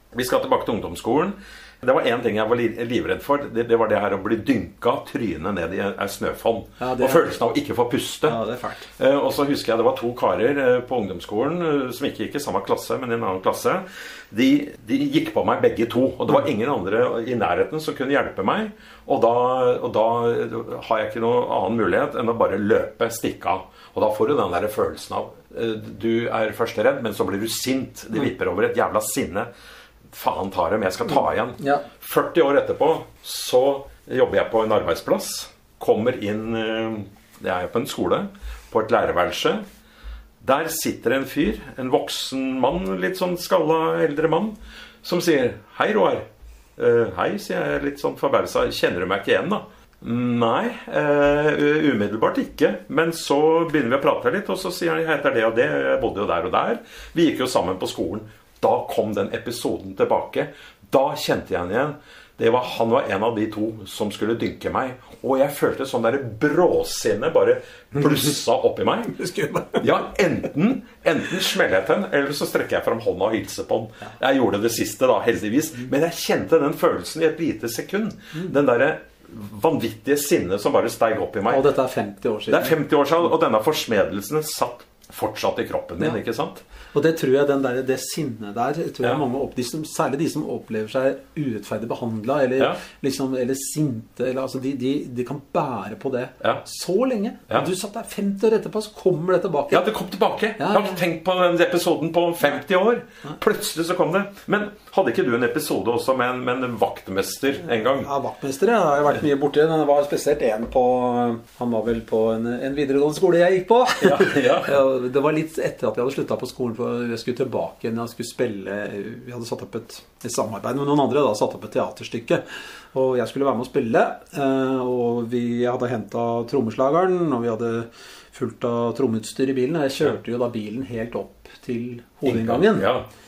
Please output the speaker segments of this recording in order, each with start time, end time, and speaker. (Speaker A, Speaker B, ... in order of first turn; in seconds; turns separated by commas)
Speaker A: 0.1-8.4, Speaker B: 6.8-7.4, Speaker B: 8.2-8.9, Speaker A: 8.9-29.5, Speaker A: 30.1-39.6, Speaker B: 31.6-31.8, Speaker A: 40.4-46.2, Speaker A: 46.8-81.7, Speaker B: 69.2-69.8, Speaker B: 81.5-82.8, Speaker A: 82.5-86.6, Speaker B: 86.9-99.9, Speaker A: 99.7-108.1, Speaker B: 100.6-101.0, Speaker B: 107.6-122.4, Speaker A: 114.0-114.8, Speaker B: 122.9-132.9, Speaker A: 132.2-133.1